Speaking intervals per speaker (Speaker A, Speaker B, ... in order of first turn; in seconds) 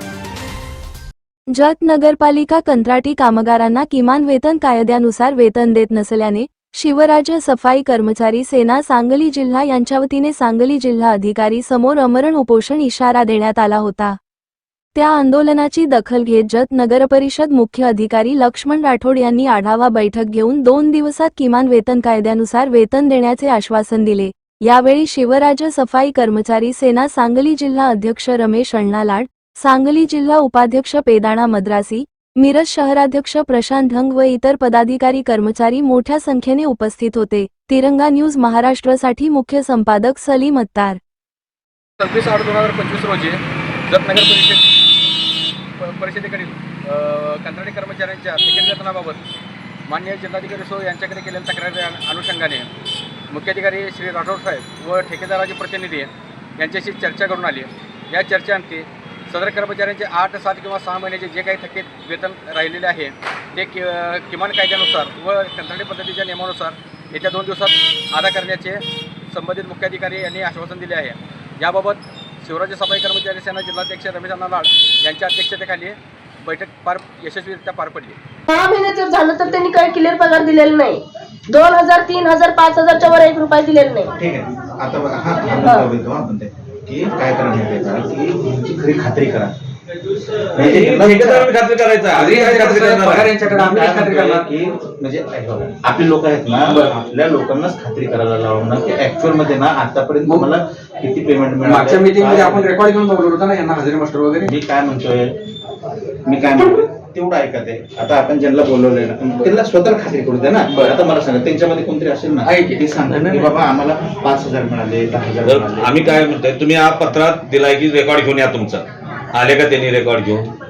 Speaker A: 1.5-14.2, 14.9-41.0
Speaker B: 42.0-44.6, 45.8-49.2, 49.9-52.7, 53.3-78.2, 92.1-94.5, 96.7-96.9, 101.6-104.5, 110.7-110.9, 112.4-112.8
Speaker C: 78.5-84.1
Speaker D: 84.2-89.5, 90.5-91.5, 93.4-102.7, 104.5-105.3, 106.2-116.2
Speaker E: 90.6-93.3, 115.5-120.5